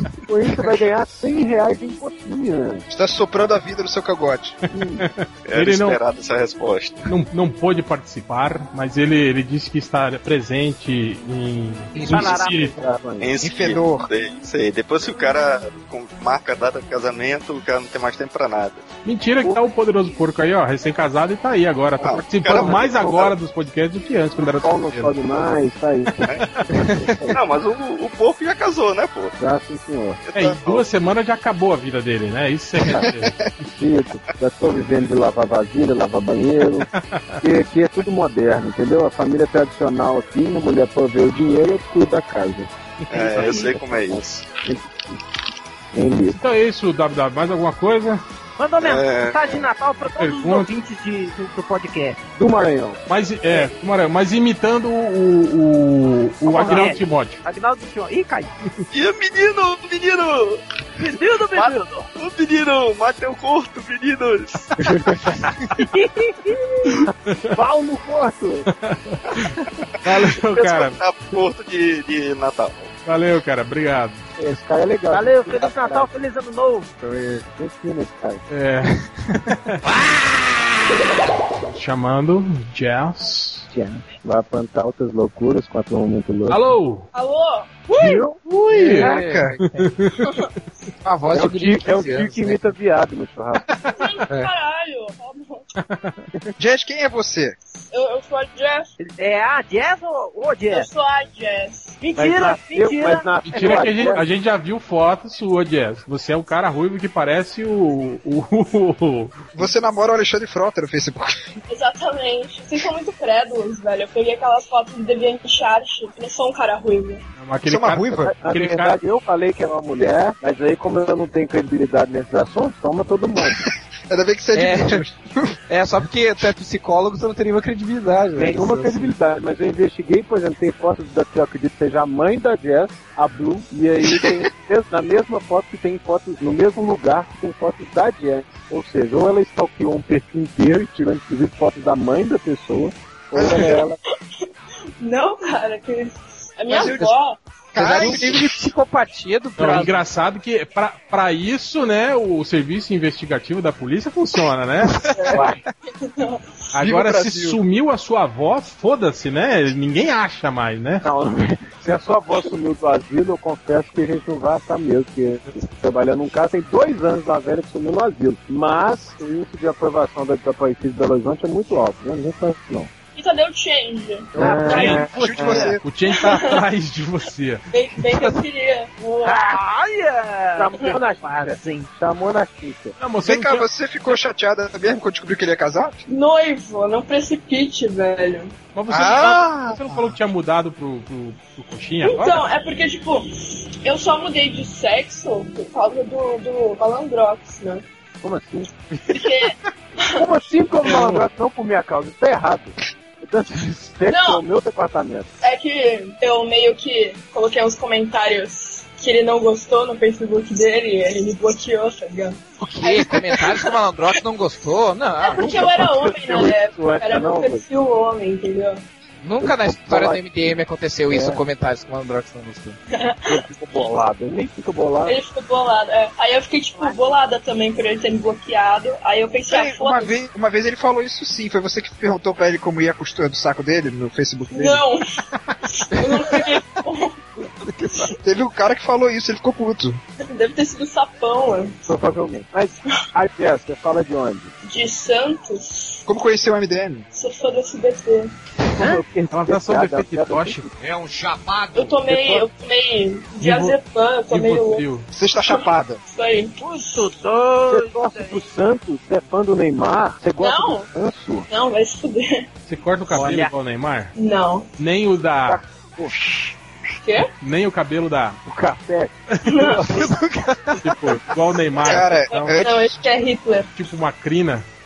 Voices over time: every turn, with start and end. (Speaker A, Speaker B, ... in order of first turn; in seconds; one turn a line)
Speaker A: 0.3-2.9
Speaker B: 2.9-4.6
Speaker A: 4.8-5.0
Speaker C: 4.8-6.0
Speaker D: 5.5-7.1
Speaker C: 7.1-12.7
Speaker E: 12.0-12.8
Speaker A: 12.0-13.3
Speaker D: 13.2-18.9
Speaker B: 13.4-14.1
Speaker C: 19.1-25.1
Speaker D: 22.0-23.3
Speaker A: 22.5-23.3
Speaker A: 24.6-27.4
Speaker C: 26.4-27.0
Speaker D: 27.3-29.3
Speaker A: 29.4-30.2
Speaker D: 30.2-30.9
Speaker C: 30.3-33.4
Speaker B: 32.9-33.5
Speaker A: 33.6-36.9
Speaker C: 36.9-37.4
Speaker A: 37.4-45.0
Speaker D: 43.1-44.5
Speaker E: 43.4-43.6
Speaker A: 45.9-46.4
Speaker C: 46.3-48.2
Speaker E: 48.6-52.2
Speaker D: 48.8-49.7
Speaker C: 50.1-50.7
Speaker A: 52.4-53.0
Speaker C: 53.1-57.4
Speaker E: 56.5-58.5
Speaker A: 56.6-56.9
Speaker D: 58.9-60.6
Speaker E: 61.0-62.1
Speaker D: 62.1-64.7
Speaker E: 65.8-67.0
Speaker C: 67.3-67.5
Speaker A: 67.6-68.7
Speaker C: 68.7-71.0
Speaker D: 70.1-72.9
Speaker C: 73.0-74.2
Speaker A: 74.4-76.1
Speaker E: 75.1-76.9
Speaker A: 77.0-78.4
Speaker C: 78.5-79.9
Speaker C: 81.6-83.7
Speaker A: 83.7-86.6
Speaker C: 86.5-87.1
Speaker F: 87.1-88.0
Speaker A: 87.9-88.4
Speaker C: 88.4-90.3
Speaker G: 88.8-89.6
Speaker B: 88.8-89.6
Speaker G: 91.0-92.6
Speaker A: 91.3-93.6
Speaker C: 93.7-94.0
Speaker F: 94.0-95.7
Speaker C: 95.8-96.2
Speaker B: 96.6-97.5
Speaker F: 97.9-98.9
Speaker E: 99.0-100.9
Speaker F: 100.7-102.0
Speaker E: 102.0-104.1
Speaker A: 102.2-104.3
Speaker C: 103.5-109.7
Speaker B: 109.6-111.3
Speaker F: 111.7-117.2
Speaker C: 117.4-119.0
Speaker B: 117.7-118.3
Speaker A: 118.3-123.6
Speaker B: 124.1-125.2
Speaker G: 124.5-125.0
Speaker G: 125.7-129.2
Speaker A: 128.3-144.0
Speaker B: 143.4-143.8
Speaker F: 145.0-147.4
Speaker B: 146.7-147.1
Speaker B: 147.8-148.6
Speaker G: 147.8-150.0
Speaker C: 149.6-155.2
Speaker A: 155.3-155.6
Speaker F: 156.0-156.4
Speaker C: 156.8-161.1
Speaker B: 156.8-157.6
Speaker A: 161.0-172.9
Speaker F: 173.2-175.1
Speaker A: 174.3-175.7
Speaker B: 174.6-175.8
Speaker C: 174.7-177.6
Speaker F: 176.1-176.7
Speaker F: 177.7-179.5
Speaker E: 179.2-181.9
Speaker A: 180.6-183.0
Speaker C: 183.0-183.7
Speaker B: 183.2-186.0
Speaker F: 186.1-188.5
Speaker C: 188.7-192.4
Speaker B: 188.9-190.0
Speaker F: 192.0-197.8
Speaker A: 198.2-198.9
Speaker F: 199.1-200.2
Speaker A: 200.2-205.3
Speaker C: 200.9-201.2
Speaker F: 204.1-204.4
Speaker F: 205.4-213.7
Speaker G: 212.6-215.6
Speaker F: 215.2-218.8
Speaker A: 215.3-217.7
Speaker G: 219.2-222.8
Speaker A: 219.4-220.5
Speaker A: 221.1-221.4
Speaker F: 222.9-223.4
Speaker A: 223.3-225.2
Speaker F: 225.1-230.2
Speaker B: 229.5-234.8
Speaker F: 234.5-237.2
Speaker B: 238.2-240.0
Speaker F: 240.2-241.8
Speaker A: 241.9-244.5
Speaker F: 244.6-246.1
Speaker B: 246.1-247.1
Speaker F: 247.1-248.3
Speaker A: 248.7-250.7
Speaker C: 249.3-250.7
Speaker F: 251.7-254.9
Speaker A: 251.8-252.5
Speaker C: 253.4-255.1
Speaker B: 255.1-256.0
Speaker F: 255.4-256.6
Speaker E: 256.6-258.4
Speaker A: 257.7-261.5
Speaker F: 260.4-260.9
Speaker F: 261.5-262.5
Speaker C: 262.7-264.1
Speaker E: 263.1-263.5
Speaker F: 264.2-264.7
Speaker C: 264.8-265.6
Speaker A: 265.4-266.1
Speaker F: 267.0-267.3
Speaker C: 267.4-268.4
Speaker A: 268.5-270.3
Speaker C: 269.3-269.6
Speaker F: 269.4-269.9
Speaker C: 270.8-272.6
Speaker B: 271.8-273.0
Speaker F: 271.8-273.7
Speaker C: 273.8-274.7